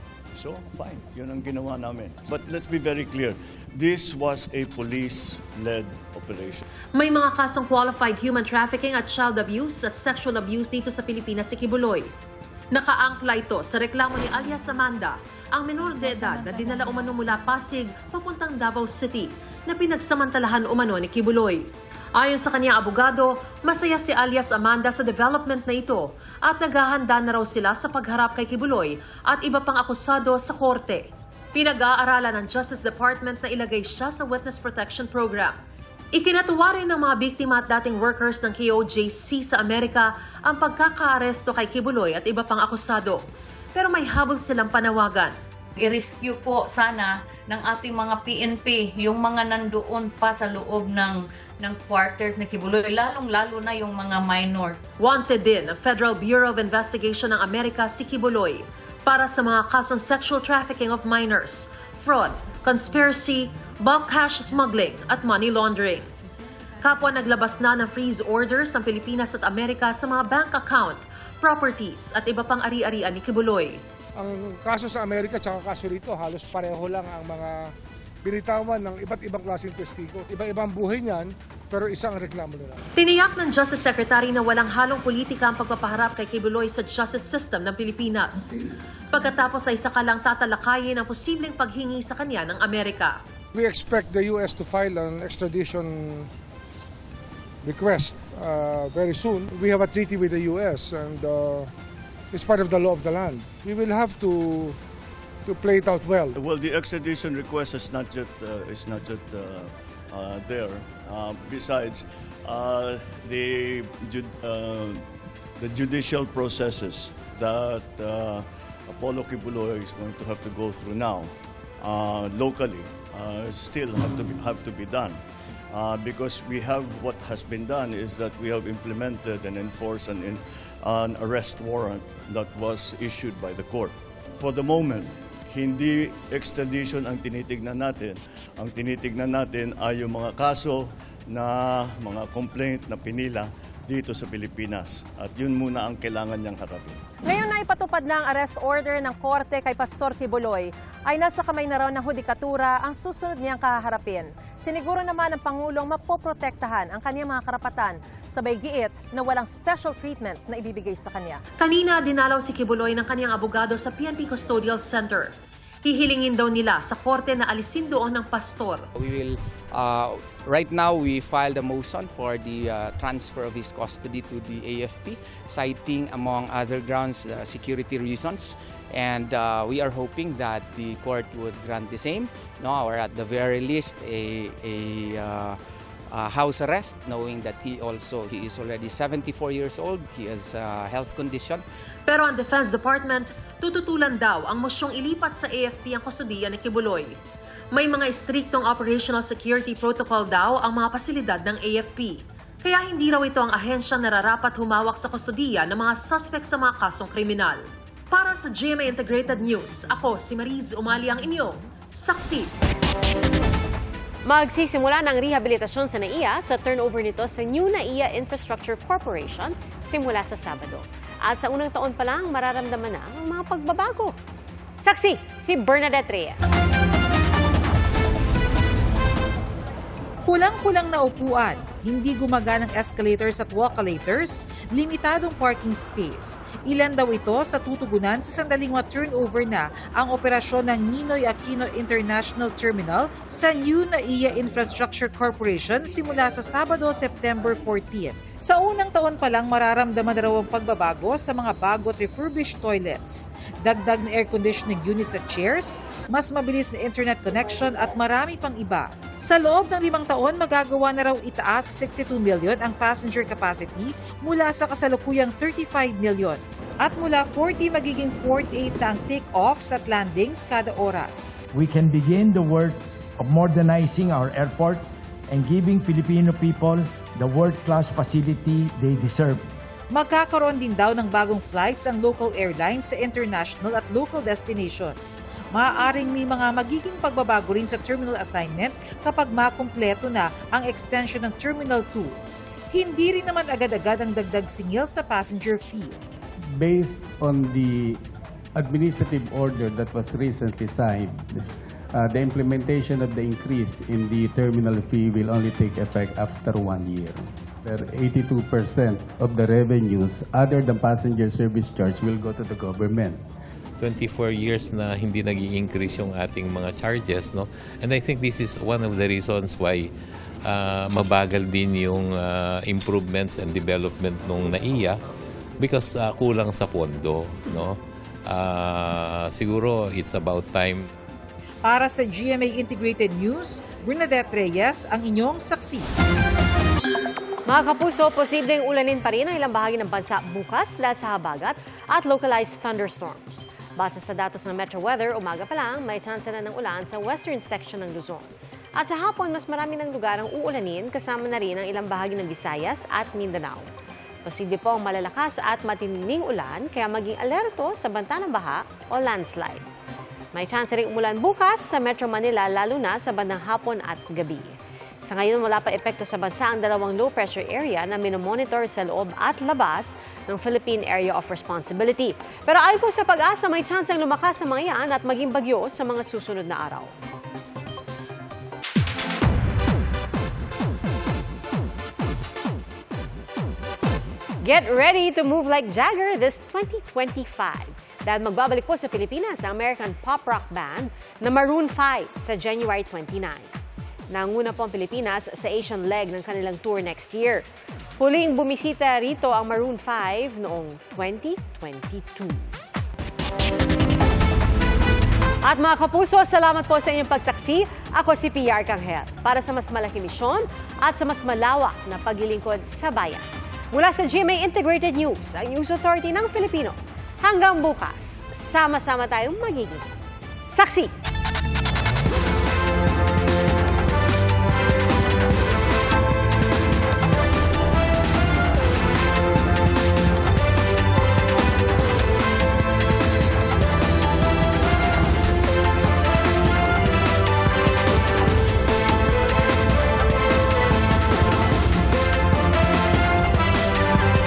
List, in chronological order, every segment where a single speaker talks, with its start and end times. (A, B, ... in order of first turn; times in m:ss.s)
0:00.3-0:06.6 A
0:07.0-0:12.1 B
0:12.7-0:21.6 B
0:22.2-0:35.6 B
0:36.1-0:43.2 B
0:43.8-0:45.3 B
0:45.8-0:54.8 C
0:55.0-1:06.1 B
1:06.8-1:13.8 B
1:14.2-1:17.7 D
1:18.2-1:22.8 D
1:23.0-1:28.5 B
1:29.1-1:33.2 B
1:33.5-1:36.3 D
1:37.6-1:41.7 D
1:42.3-1:44.8 D
1:45.5-1:46.4 D
1:46.4-1:55.1 A
1:55.6-2:05.2 A
2:05.7-2:27.0 A
2:27.2-2:41.4 E
2:41.6-2:45.3 B
2:45.8-2:48.8 B
2:49.0-3:05.6 F
3:06.1-3:11.6 F
3:12.1-3:17.2 B
3:17.7-3:32.5 B
3:34.3-3:44.2 G
3:44.8-3:46.7 G
3:50.3-4:31.3 H
4:31.6-4:32.7 I
4:33.3-4:34.8 I
4:35.4-4:39.4 I
4:39.9-4:52.2 H
4:52.7-4:56.0 H
4:56.5-4:58.0 J
4:58.6-5:13.2 J
5:13.8-5:19.9 K
5:20.4-5:25.0 K
5:25.6-5:30.9 K
5:31.6-5:35.9 H
5:37.5-5:53.7 G
5:54.2-5:59.6 G
6:00.3-6:04.5 G
6:05.1-6:16.9 G
6:24.4-6:33.5 G
6:34.1-6:37.5 G
6:38.0-6:42.5 G
6:45.4-6:59.9 G
7:00.5-7:00.9 G